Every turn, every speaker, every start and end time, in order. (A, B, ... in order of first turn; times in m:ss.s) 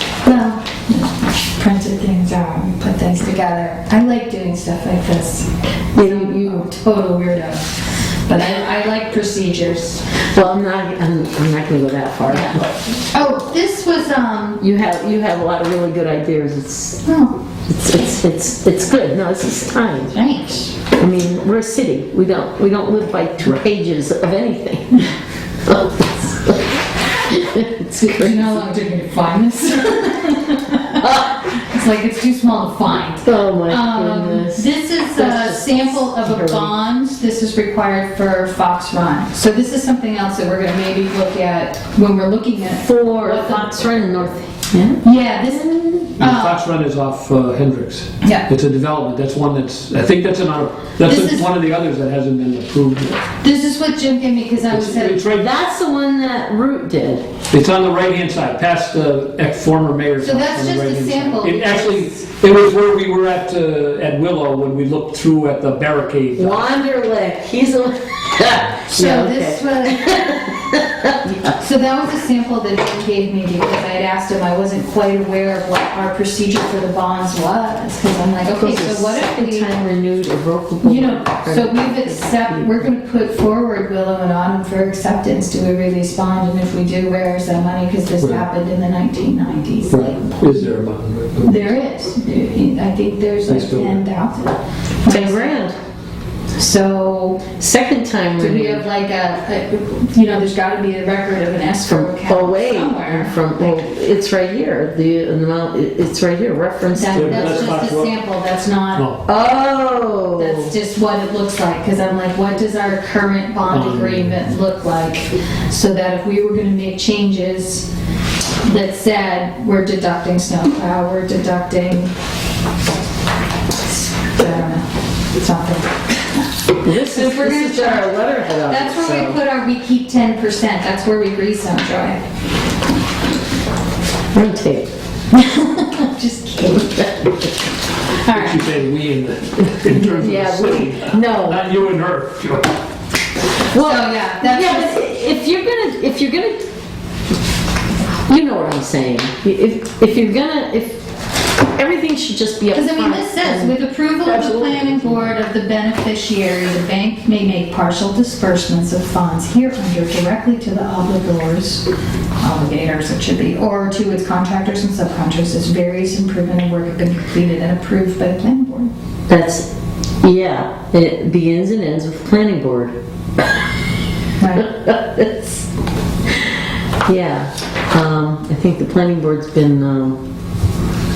0:00.2-0:07.7 A
0:06.0-0:06.7 B
0:08.3-0:10.0 A
0:10.3-0:12.8 B
0:12.3-0:14.6 A
0:14.6-0:17.0 B
0:17.0-0:17.4 A
0:17.7-0:20.1 B
0:20.1-0:20.8 A
0:21.0-0:25.1 B
0:25.7-0:26.6 B
0:27.2-0:28.6 B
0:28.0-0:44.1 A
0:31.0-0:31.4 B
0:33.2-0:36.7 B
0:42.7-0:45.9 B
0:45.0-0:46.6 A
0:46.2-0:53.3 C
0:48.2-0:48.5 A
0:51.0-0:51.5 A
0:53.4-0:55.2 A
0:54.7-0:55.5 C
0:55.3-0:57.3 B
0:57.5-1:06.7 C
1:00.2-1:02.2 A
1:06.4-1:11.6 B
1:08.9-1:10.5 A
1:11.6-1:19.7 A
1:18.5-1:22.8 B
1:20.8-1:30.7 A
1:28.2-1:28.4 C
1:29.9-1:31.8 C
1:31.4-1:35.6 A
1:33.5-1:34.0 C
1:35.1-1:35.8 B
1:36.6-1:37.5 A
1:37.6-1:38.9 B
1:38.4-1:43.9 A
1:41.9-1:47.8 B
1:46.9-1:49.1 A
1:47.1-1:48.2 C
1:48.9-1:49.2 C
1:49.3-1:50.7 B
1:50.4-1:57.9 A
1:53.7-1:54.5 C
1:58.6-2:02.1 A
2:03.8-2:12.2 A
2:06.8-2:09.4 B
2:14.3-2:14.9 B
2:15.3-2:17.3 A
2:18.2-2:18.7 A
2:18.3-2:22.7 C
2:19.9-2:21.7 B
2:23.7-2:26.7 B
2:23.7-2:25.0 A
2:28.2-2:31.1 B
2:31.7-2:33.7 B
2:32.7-2:41.8 A
2:34.2-2:35.4 C
2:42.4-2:48.9 A
2:49.3-2:49.7 B
2:50.2-2:53.0 B
2:54.4-2:54.7 A
2:54.6-2:55.7 B
2:57.0-3:00.2 B